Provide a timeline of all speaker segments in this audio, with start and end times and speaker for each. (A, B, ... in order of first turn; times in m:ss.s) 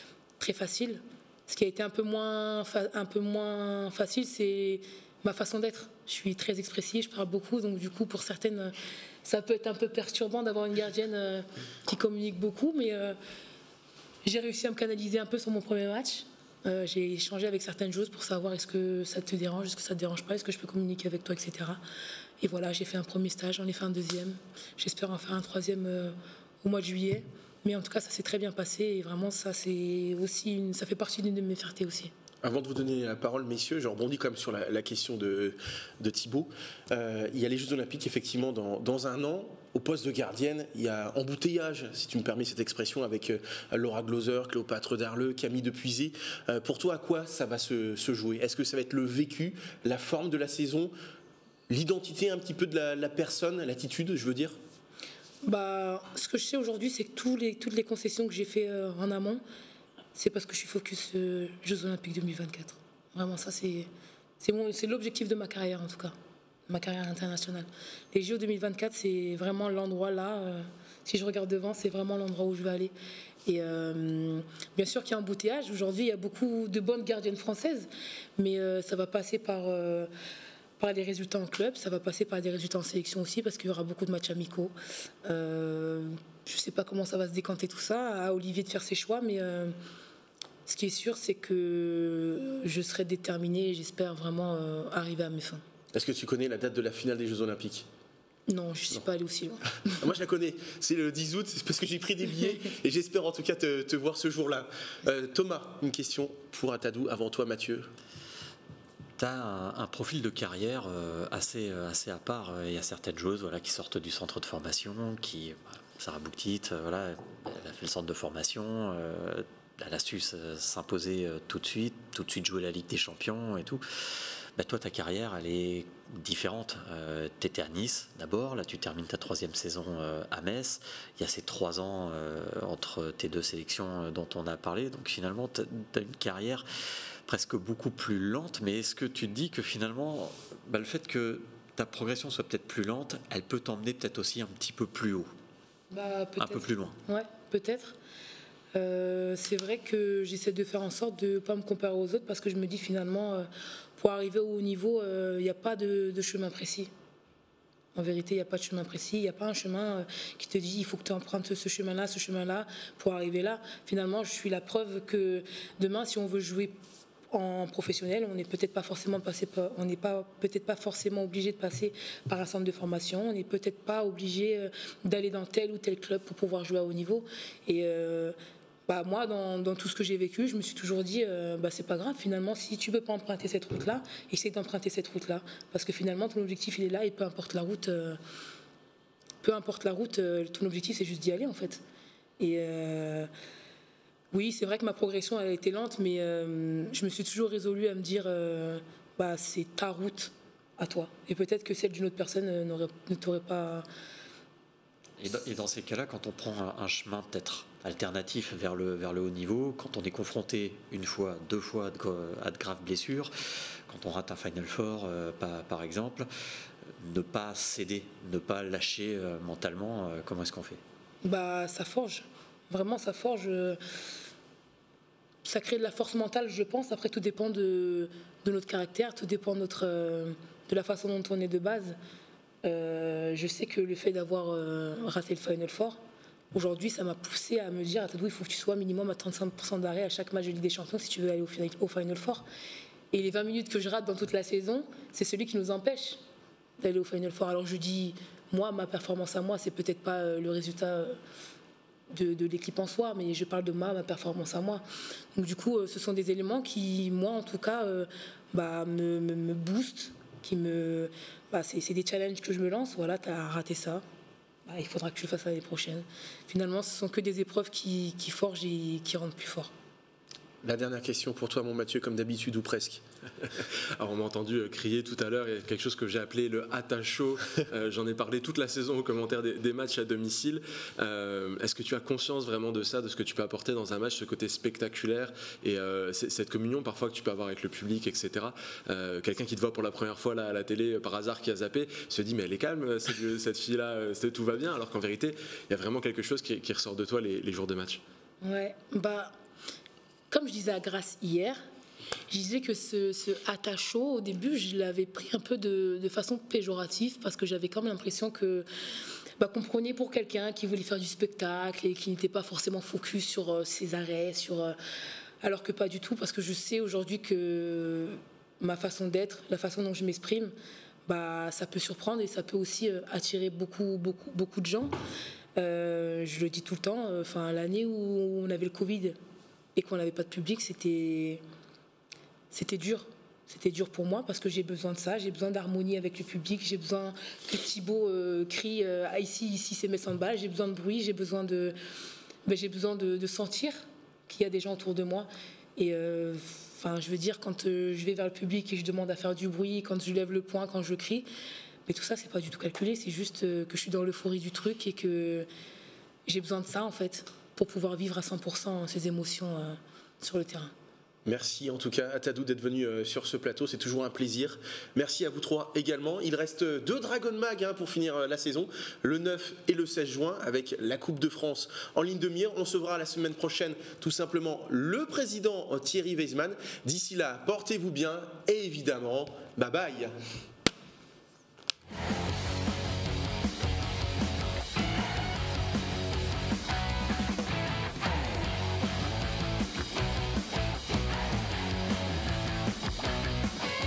0:00.4-0:08.7 A
0:09.2-0:13.2 A
0:14.2-0:21.8 A
0:22.4-0:32.1 A
0:32.4-0:50.9 B
0:51.7-0:54.6 B
0:55.4-0:59.4 A
1:00.2-1:03.9 A
1:04.4-1:06.2 A
1:06.7-1:12.9 A
1:13.5-1:20.1 A
1:20.8-1:24.7 A
1:25.2-1:29.8 A
1:30.7-1:35.6 A
1:35.9-1:37.9 B
1:38.5-1:39.6 A
1:40.0-1:47.9 B
1:49.2-2:03.8 C
2:04.6-2:16.7 C
2:17.3-2:25.3 C
2:25.9-2:28.0 A
2:26.4-2:27.0 C
2:28.7-2:36.9 A
2:38.0-2:46.8 A
2:47.3-2:58.4 A
2:58.9-3:08.2 A
3:09.4-3:11.8 A
3:12.4-3:13.3 A
3:14.3-3:23.9 A
3:25.2-3:33.3 C
3:33.9-3:36.3 C
3:37.0-3:40.8 C
3:41.2-3:43.8 A
3:45.4-3:52.0 A
3:52.6-3:56.0 A
3:56.5-4:02.4 A
4:03.1-4:06.2 A
4:06.8-4:11.2 A
4:12.1-4:24.0 A
4:24.7-4:29.7 A
4:30.6-4:33.0 B
4:34.0-4:58.0 D
4:58.4-4:59.4 A
5:00.3-5:01.6 A
5:02.3-5:08.7 A
5:09.4-5:14.8 A
5:15.4-5:20.5 A
5:21.1-5:25.0 A
5:25.6-5:29.2 A
5:29.8-5:31.4 A
5:32.5-5:41.8 A
5:42.5-5:51.3 A
5:51.9-5:55.5 A
5:56.3-6:00.7 A
6:01.3-6:20.1 B